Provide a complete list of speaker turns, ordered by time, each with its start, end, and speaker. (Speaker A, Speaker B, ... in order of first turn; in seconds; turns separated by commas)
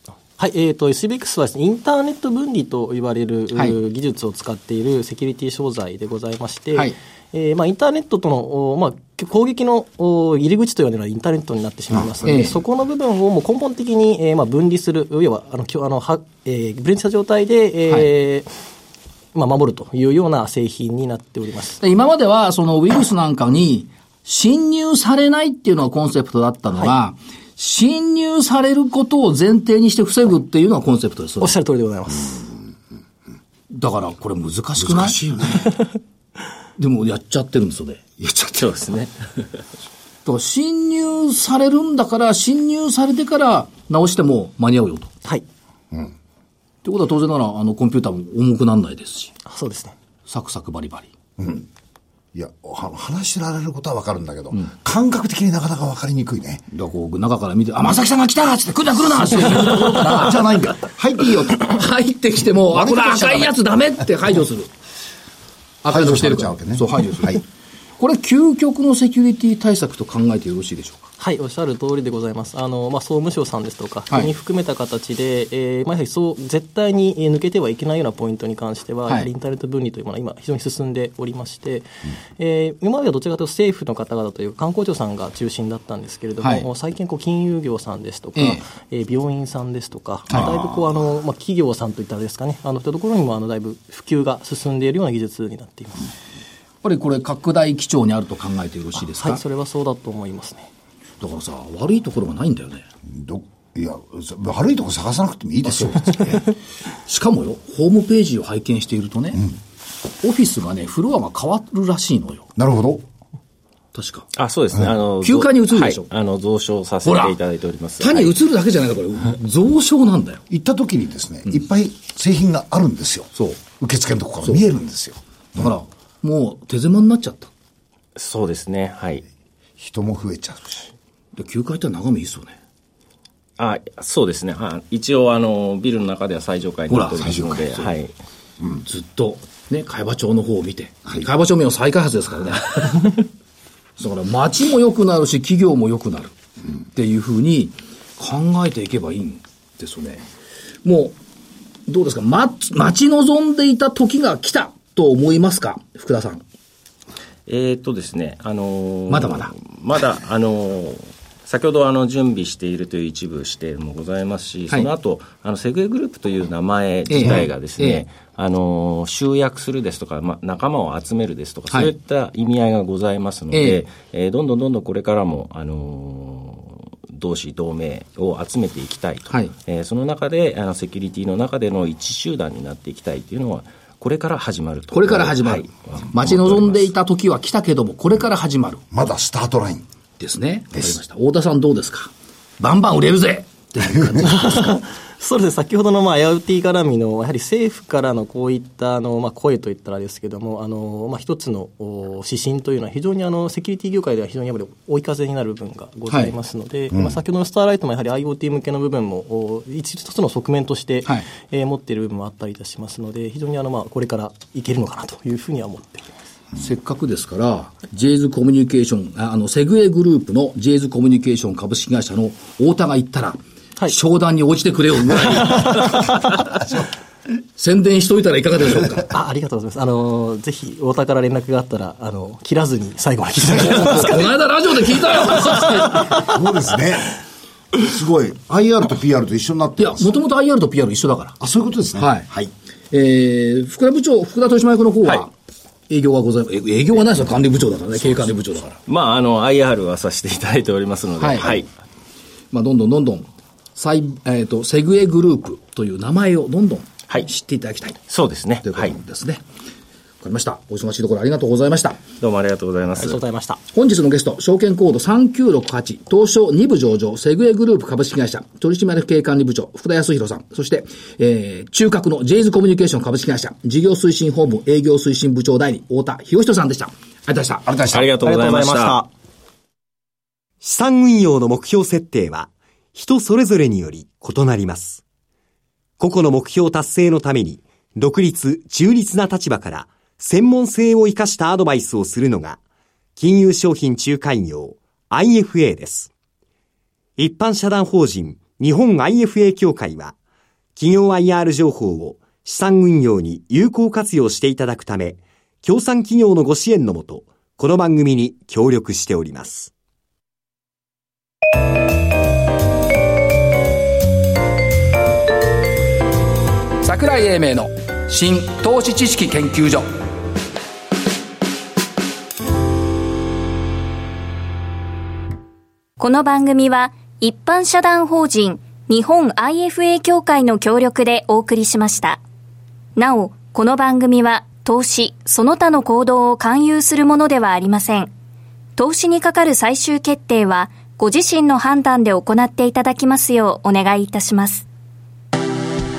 Speaker A: 0.4-18.5, Speaker B: 12.2-12.6, Speaker A: 19.3-21.8, Speaker B: 21.8-31.5, Speaker A: 31.4-32.5, Speaker B: 33.7-35.2, Speaker C: 34.8-35.7, Speaker B: 36.8-38.0, Speaker C: 38.2-38.7, Speaker D: 38.4-39.1, Speaker B: 40.2-45.1, Speaker B: 46.8-49.3, Speaker A: 49.5-49.9, Speaker B: 50.3-51.1, Speaker C: 51.4-51.7, Speaker C: 52.3-56.7, Speaker B: 56.7-60.4, Speaker C: 59.4-61.7, Speaker B: 61.2-64.7, Speaker C: 62.7-63.6, Speaker B: 65.8-67.4, Speaker C: 65.9-67.4, Speaker B: 68.0-71.1, Speaker A: 71.2-81.9, Speaker A: 82.4-96.1, Speaker B: 86.4-86.7, Speaker B: 88.4-88.6, Speaker C: 90.3-90.7, Speaker B: 96.8-99.4, Speaker A: 99.2-100.7, Speaker B: 101.2-102.8, Speaker C: 103.1-106.4, Speaker B: 107.1-109.5, Speaker B: 110.2-112.5, Speaker C: 112.6-113.0, Speaker B: 113.9-114.3, Speaker D: 114.3-118.3, Speaker B: 115.2-116.0, Speaker B: 117.0-117.4, Speaker B: 118.0-120.4, Speaker C: 120.5-125.7, Speaker B: 123.3-123.6, Speaker B: 125.5-127.5, Speaker D: 128.2-129.2, Speaker C: 129.8-130.9, Speaker B: 131.4-132.6, Speaker D: 133.6-138.1, Speaker B: 136.9-137.2, Speaker C: 137.2-137.7, Speaker B: 138.8-143.2, Speaker B: 144.0-146.3, Speaker B: 146.9-150.3, Speaker B: 150.8-151.2, Speaker B: 151.9-156.4, Speaker D: 157.5-186.9, Speaker B: 159.1-159.5, Speaker B: 167.1-168.0, Speaker B: 173.5-173.8, Speaker B: 184.9-188.8, Speaker C: 188.9-189.8, Speaker B: 190.2-194.6, Speaker C: 193.8-194.2, Speaker A: 194.2-216.1, Speaker B: 216.6-226.5, Speaker B: 227.6-229.1, Speaker A: 229.1-234.4, Speaker B: 233.5-236.1, Speaker C: 233.6-234.0, Speaker A: 235.2-236.3, Speaker C: 235.9-237.2, Speaker C: 237.7-240.1, Speaker B: 239.8-241.4, Speaker C: 241.4-242.5, Speaker B: 242.0-242.3, Speaker B: 242.9-245.3, Speaker B: 245.9-248.8, Speaker D: 248.9-251.7, Speaker B: 251.2-251.6, Speaker B: 252.5-258.0, Speaker D: 258.1-259.0, Speaker B: 258.6-259.4, Speaker B: 260.2-262.0, Speaker D: 262.2-263.2, Speaker A: 263.0-263.6, Speaker B: 263.7-277.7, Speaker C: 277.7-278.0, Speaker D: 277.9-279.0, Speaker E: 278.2-279.1, Speaker E: 280.6-285.0, Speaker E: 286.0-292.6, Speaker E: 293.2-296.1, Speaker E: 297.2-300.1, Speaker E: 300.8-309.7, Speaker B: 316.8-319.9, Speaker F: 326.0-332.2, Speaker F: 333.0-338.1, Speaker F: 338.8-344.7